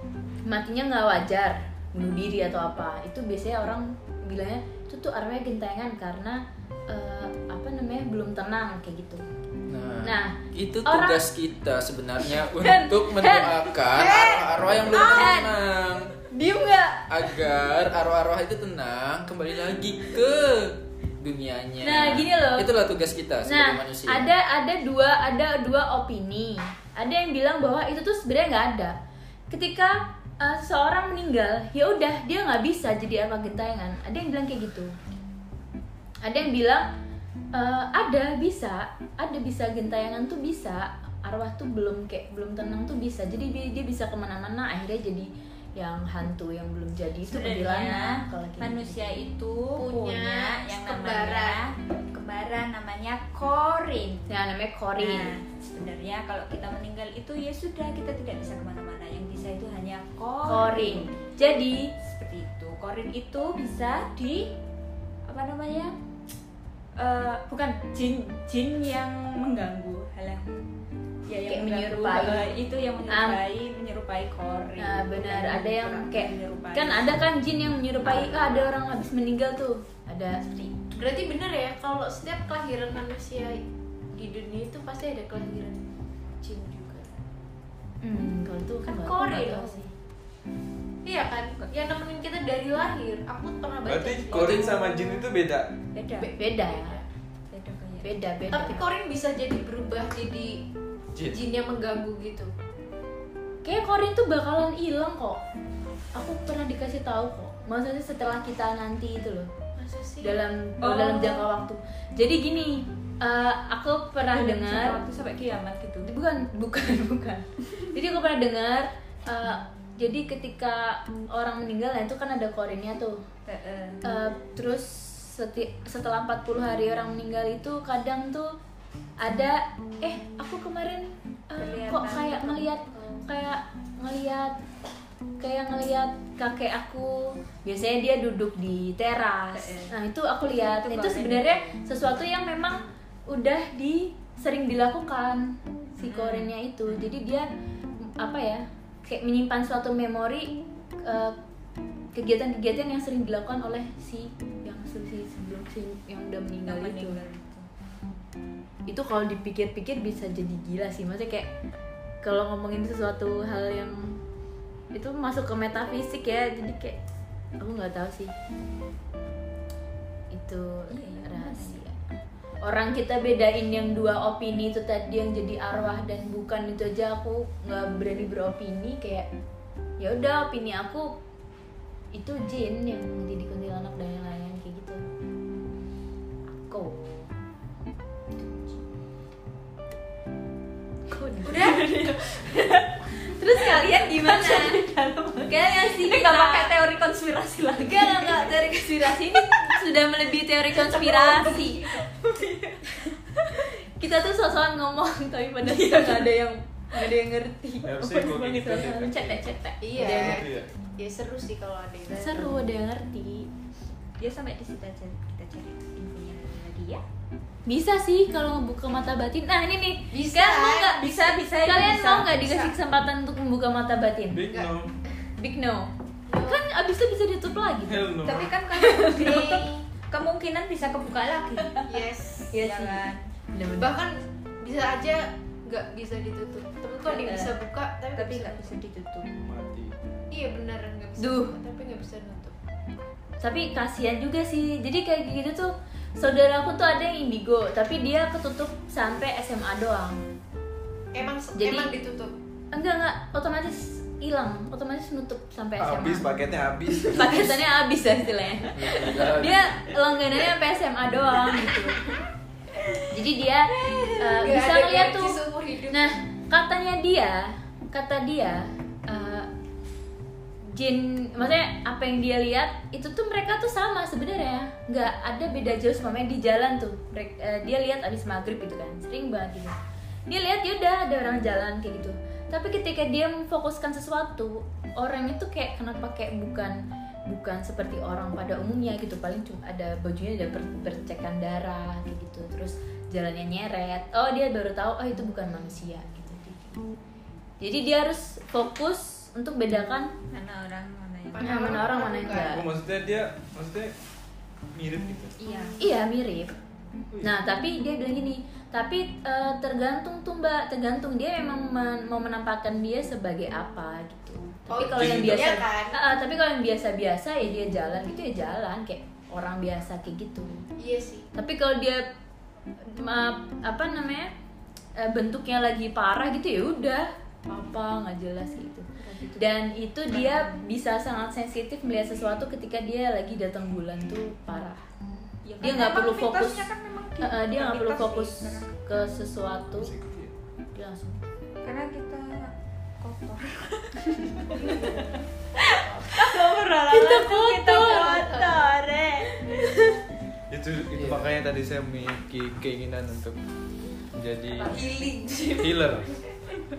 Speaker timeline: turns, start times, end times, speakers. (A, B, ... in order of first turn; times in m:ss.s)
0:00.5-0:09.2 A
0:09.7-0:16.1 B
0:10.0-0:11.2 A
0:12.5-0:13.7 A
0:14.0-0:14.6 C
0:14.9-0:15.5 A
0:16.3-0:17.1 A
0:17.1-0:24.3 B
0:21.8-0:22.7 A
0:23.4-0:29.0 A
0:29.5-0:34.9 A
0:36.2-0:36.9 A
0:37.5-0:49.2 A
0:47.3-0:54.3 D
0:49.8-0:51.6 C
0:54.3-0:55.4 A
0:55.0-1:01.3 D
1:00.5-1:01.9 A
1:02.0-1:04.5 D
1:05.3-1:06.0 D
1:07.0-1:10.5 D
1:11.3-1:17.2 D
1:11.5-1:12.5 A
1:13.1-1:13.4 A
1:14.8-1:20.4 A
1:18.0-1:18.7 D
1:20.4-1:20.9 D
1:21.0-1:23.6 C
1:24.1-1:27.1 C
1:28.0-1:29.8 A
1:28.9-1:29.8 C
1:29.0-1:29.8 D
1:31.0-1:35.2 C
1:33.8-1:35.7 E
1:36.0-1:36.3 D
1:36.2-1:37.1 C
1:36.4-1:37.0 A
1:37.5-1:38.6 D
1:38.0-1:38.9 A
1:38.5-1:40.6 C
1:41.2-1:41.4 E
1:41.3-1:42.5 C
1:43.6-1:45.4 A
1:46.1-1:49.5 A
1:49.8-1:50.4 C
1:50.2-1:55.0 A
1:50.8-1:51.5 D
1:54.3-1:56.1 D
1:56.0-2:03.2 A
2:03.5-2:04.0 D
2:04.0-2:08.6 A
2:09.2-2:14.6 A
2:11.6-2:13.2 D
2:15.4-2:27.5 A
2:19.5-2:19.9 D
2:20.5-2:21.8 D
2:26.0-2:27.0 D
2:28.0-2:30.5 A
2:31.0-2:31.4 A
2:32.2-2:37.2 A
2:36.7-2:37.7 D
2:38.9-2:41.5 A
2:42.2-2:44.2 A
2:44.9-2:47.0 A
2:47.6-2:48.3 A
2:50.3-2:52.0 A
2:50.9-2:51.8 D
2:52.6-2:59.3 A
3:00.0-3:01.1 A
3:02.1-3:05.0 A
3:06.6-3:07.3 A
3:08.4-3:08.8 A
3:11.1-3:11.7 A
3:11.4-3:19.7 D
3:11.5-3:11.8 C
3:13.3-3:14.8 A
3:15.5-3:16.7 A
3:17.8-3:22.0 A
3:20.8-3:23.6 D
3:23.6-3:30.5 A
3:25.7-3:26.3 D
3:27.8-3:30.7 E
3:28.0-3:28.9 D
3:29.8-3:32.5 C
3:32.1-3:33.5 A
3:34.2-3:37.0 D
3:37.7-3:44.4 A
3:40.2-3:42.4 D
3:42.4-3:42.7 C
3:44.3-3:44.9 E
3:45.4-3:45.9 A
3:46.3-3:46.6 C
3:46.4-3:48.1 A
3:47.9-3:48.5 E
3:48.2-3:51.8 D
3:48.7-3:49.6 A
3:49.0-3:49.8 C
3:51.9-3:52.5 C
3:52.5-3:54.0 A
3:52.5-3:53.3 D
3:53.8-3:58.6 C
3:57.0-3:57.6 D
3:58.2-3:59.3 D
3:59.4-3:59.9 E
4:00.3-4:02.6 C
4:01.2-4:01.6 A
4:03.4-4:10.2 A
4:11.1-4:12.3 C
4:11.6-4:11.9 A
4:12.7-4:16.3 A
4:15.8-4:17.6 E
4:17.1-4:22.0 A
4:18.7-4:19.6 B
4:23.1-4:29.5 A
4:23.7-4:24.5 D
4:24.4-4:26.2 C
4:30.7-4:39.8 A
4:40.3-4:56.8 A
4:57.6-5:00.1 A
5:00.3-5:01.7 D
5:01.3-5:02.6 C
5:01.4-5:02.6 A
5:02.5-5:03.9 E
5:04.7-5:05.3 E
5:05.4-5:05.8 D
5:05.8-5:06.5 A
5:07.2-5:20.7 A
5:14.7-5:16.0 C
5:14.8-5:15.7 E
5:20.8-5:21.3 C
5:21.3-5:22.1 A
5:22.8-5:24.3 A
5:25.0-5:34.8 A
5:29.0-5:29.5 D
5:30.1-5:30.6 D
5:35.4-5:38.7 D
5:35.6-5:36.7 A
5:37.2-5:39.9 A
5:39.8-5:40.3 E
5:40.8-5:41.2 A
5:41.6-5:49.3 D
5:44.3-5:44.9 A
5:44.6-5:46.2 C
5:46.9-5:48.4 A
5:47.7-5:48.7 C
5:50.5-5:53.4 E
5:50.9-5:51.3 B
5:54.2-5:54.8 E
5:54.5-5:55.6 D
5:54.8-5:55.6 C
5:55.6-5:56.1 E